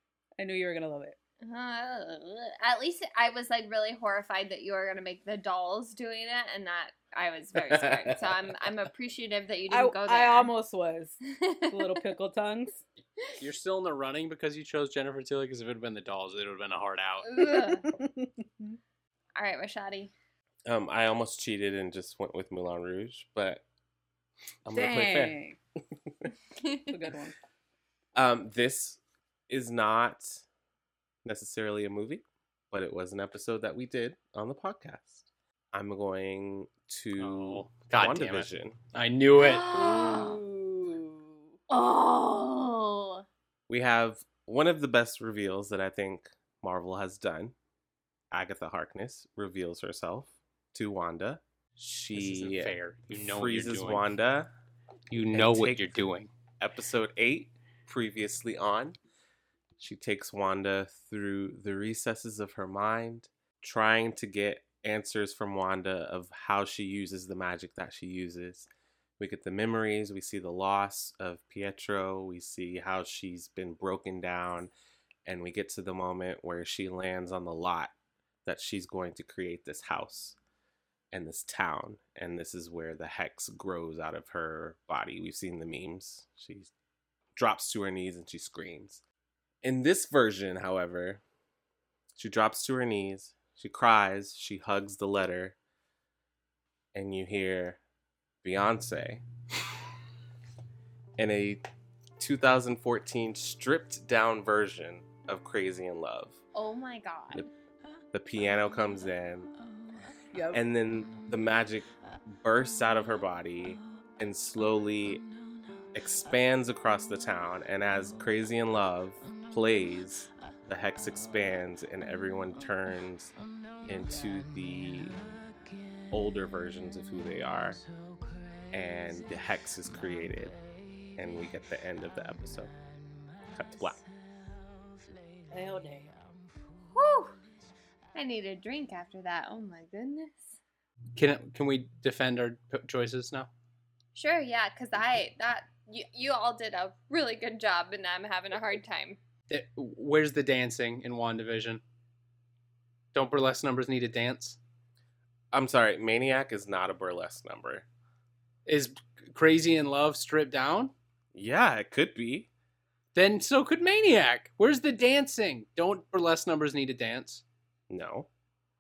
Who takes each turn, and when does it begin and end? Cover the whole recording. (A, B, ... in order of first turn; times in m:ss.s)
0:00.4-0:01.2 A
0:01.4-0:10.5 B
0:07.7-0:08.2 C
0:09.7-0:11.2 A
0:11.4-0:12.0 B
0:11.7-0:12.8 A
0:13.4-0:17.3 D
0:17.3-0:17.9 B
0:17.4-0:18.8 A
0:19.4-0:20.1 B
0:20.7-0:23.6 C
0:24.7-0:25.4 C
0:24.7-0:25.6 A
0:26.6-0:26.9 B
0:26.9-0:27.4 A
0:28.2-0:30.4 C
0:31.2-0:38.8 C
0:37.2-0:39.7 D
0:39.4-0:40.4 B
0:39.7-0:41.6 A
0:41.7-0:43.2 B
0:43.7-0:47.6 C
0:48.3-0:54.5 C
0:52.2-0:54.1 D
0:55.1-0:56.3 D
0:55.3-0:56.0 C
0:56.6-0:59.0 C
0:59.8-1:08.7 C
1:09.2-1:14.7 C
1:15.2-1:17.9 C
1:18.4-1:20.4 C
1:21.1-1:26.7 C
1:27.4-1:29.0 C
1:29.6-1:31.2 C
1:32.2-1:35.6 C
1:36.9-1:37.8 C
1:38.4-1:39.2 C
1:41.2-1:41.6 C
1:42.2-1:46.4 C
1:46.6-1:47.5 B
1:48.1-1:49.5 C
1:50.3-1:50.6 A
1:50.5-1:55.2 C
1:55.9-2:03.3 C
2:03.8-2:05.2 C
2:06.1-2:07.8 C
2:08.7-2:10.6 C
2:11.2-2:12.7 C
2:13.5-2:14.0 C
2:15.5-2:16.1 A
2:16.9-2:17.3 B
2:18.1-2:20.6 B
2:21.2-2:23.5 D
2:24.2-2:29.2 B
2:29.5-2:31.8 D
2:33.1-2:34.6 D
2:35.5-2:37.9 C
2:38.7-2:40.9 D
2:41.3-2:42.5 C
2:43.2-2:47.4 D
2:47.9-2:48.3 C